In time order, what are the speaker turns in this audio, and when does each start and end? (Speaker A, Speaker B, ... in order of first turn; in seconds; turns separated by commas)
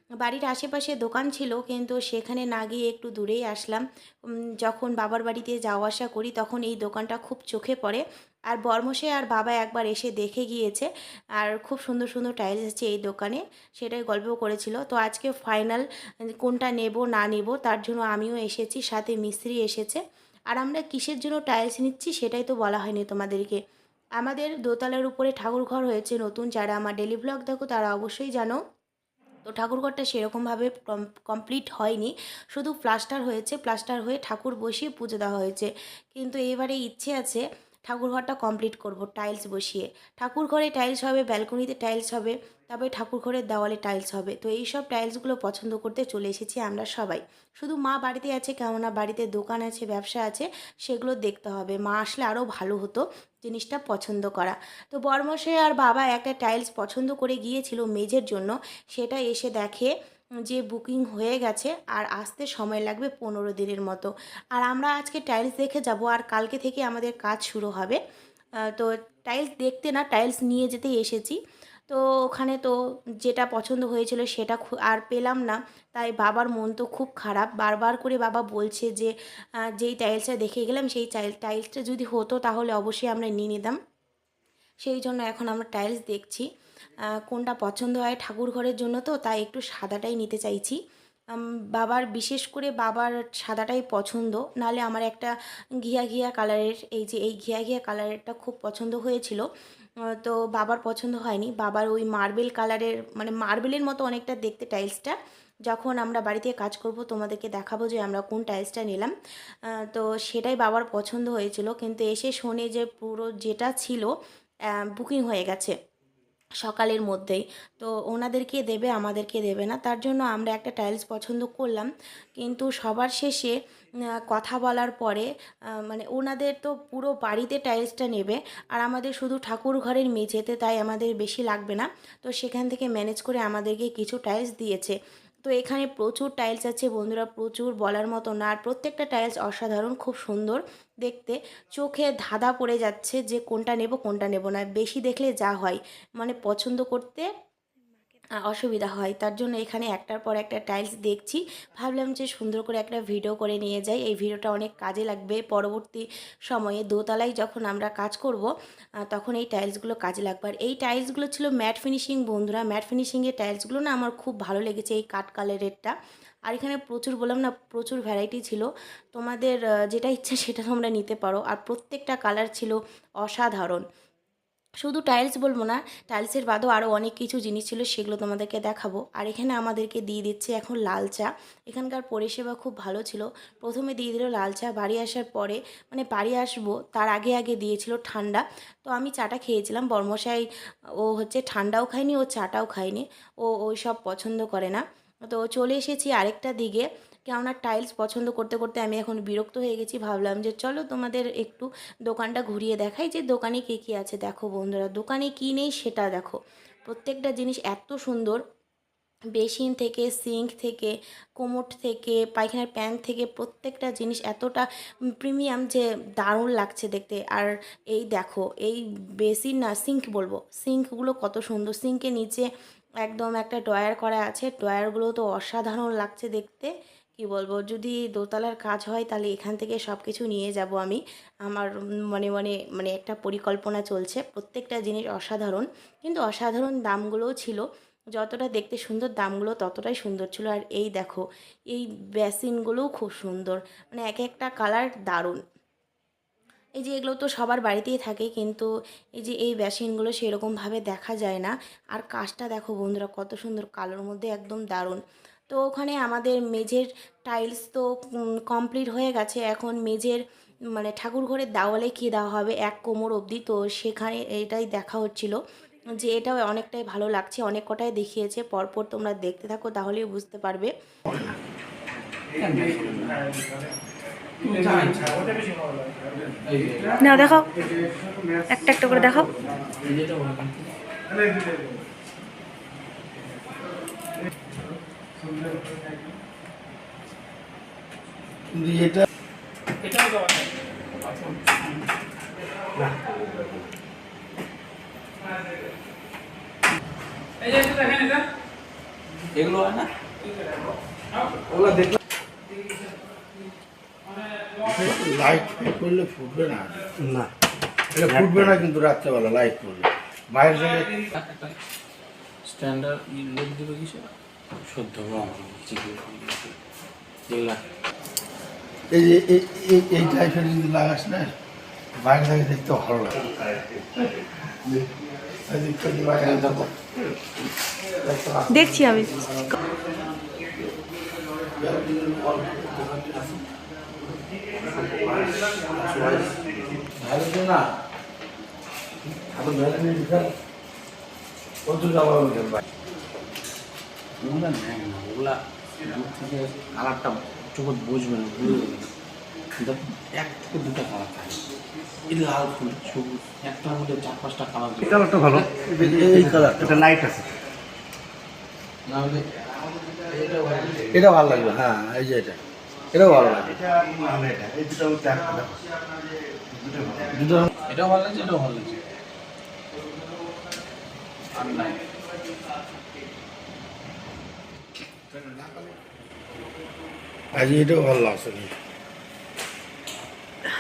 Speaker A: 0.2-10.9, Speaker A: 11.4-20.0, Speaker A: 20.5-23.6, Speaker A: 24.2-28.6, Speaker A: 29.4-59.9, Speaker A: 60.5-68.0, Speaker A: 68.7-71.4, Speaker A: 71.9-79.1, Speaker A: 79.7-83.8, Speaker A: 84.8-86.5, Speaker A: 87.2-90.8, Speaker A: 91.4-95.3, Speaker A: 95.8-99.5, Speaker A: 100.1-105.2, Speaker A: 105.7-109.1, Speaker A: 109.7-114.1, Speaker A: 114.7-115.7, Speaker A: 116.6-123.5, Speaker A: 124.2-125.3, Speaker A: 125.9-134.9, Speaker A: 135.5-147.3, Speaker A: 148.4-158.5, Speaker A: 159.1-165.9, Speaker A: 166.5-173.8, Speaker A: 174.8-190.4, Speaker A: 191.0-208.4, Speaker A: 209.3-214.7, Speaker A: 215.2-222.5, Speaker A: 223.0-237.6, Speaker A: 238.2-245.4, Speaker A: 246.8-257.9, Speaker A: 258.4-260.2, Speaker A: 260.8-265.4, Speaker A: 266.0-270.7, Speaker B: 272.3-273.5, Speaker B: 274.4-275.4, Speaker B: 276.4-277.3, Speaker A: 277.0-277.5, Speaker A: 278.5-279.3, Speaker B: 279.4-280.8, Speaker C: 288.5-289.1, Speaker B: 289.9-290.4, Speaker B: 291.0-291.7, Speaker B: 297.5-298.1, Speaker B: 299.3-299.9, Speaker C: 304.6-307.0, Speaker C: 307.9-310.9, Speaker B: 311.1-311.6, Speaker B: 312.4-314.1, Speaker B: 314.6-316.6, Speaker B: 317.3-317.6, Speaker C: 318.9-321.3, Speaker C: 322.0-323.9, Speaker C: 325.4-326.7, Speaker B: 326.2-326.7, Speaker C: 328.0-329.3, Speaker A: 328.5-329.1, Speaker C: 331.6-332.9, Speaker B: 332.7-333.4, Speaker D: 334.7-335.2, Speaker C: 334.8-337.6, Speaker C: 339.3-340.3, Speaker C: 341.7-342.6, Speaker B: 344.2-348.9, Speaker B: 349.6-351.4, Speaker B: 352.1-356.9, Speaker C: 355.1-357.0, Speaker D: 356.8-357.2, Speaker B: 358.9-359.2, Speaker B: 360.1-361.4, Speaker C: 360.9-362.4, Speaker C: 362.9-364.0, Speaker D: 363.5-365.6, Speaker D: 366.5-367.1, Speaker C: 367.0-367.5, Speaker B: 367.6-368.8, Speaker B: 371.3-371.8, Speaker C: 375.1-375.8, Speaker C: 377.3-378.6